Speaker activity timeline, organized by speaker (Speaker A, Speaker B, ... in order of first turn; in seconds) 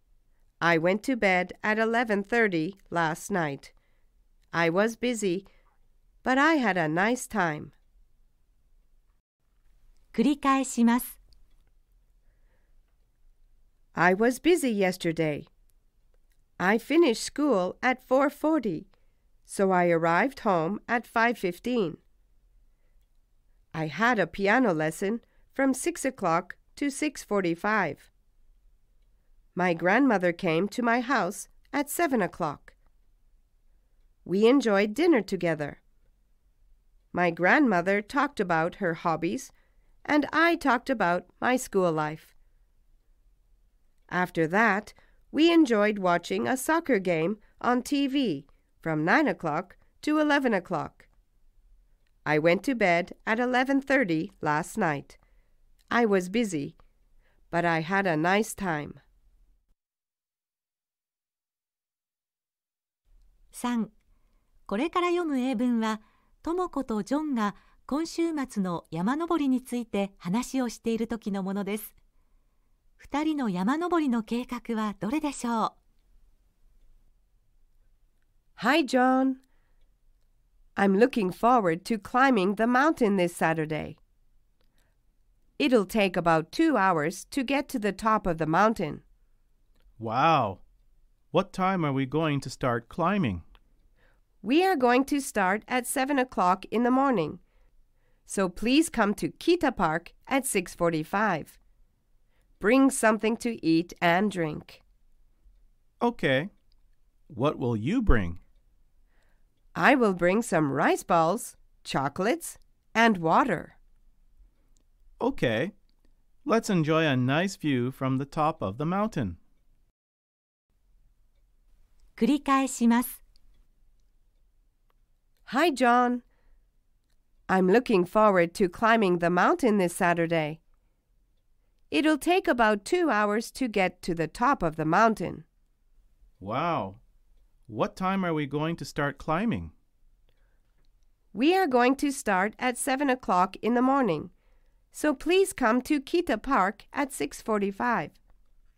Speaker A: 0.6-3.7, 4.5-5.5, 6.2-7.7, 13.9-15.5, 16.6-18.9, 19.5-22.0, 23.7-28.1, 29.6-32.7, 34.2-35.8, 37.1-39.5, 40.0-42.3, 44.1-51.1, 52.2-55.2, 55.9-56.8, 57.5-59.0, 78.6-79.4, 80.8-84.0, 85.6-89.0, 94.4-97.4, 98.3-101.6, 102.6-104.8, 109.8-113.8, 125.5-126.2, 127.5-130.6, 131.9-135.4, 141.3-144.3, 144.9-148.2
Speaker B: 10.1-11.2, 63.5-63.9, 64.7-72.0, 73.0-75.8, 122.2-123.2
Speaker C: 90.0-90.6, 91.3-93.4, 106.0-106.5, 107.3-108.4, 115.2-115.7, 116.5-119.4, 136.4-137.0, 137.7-139.7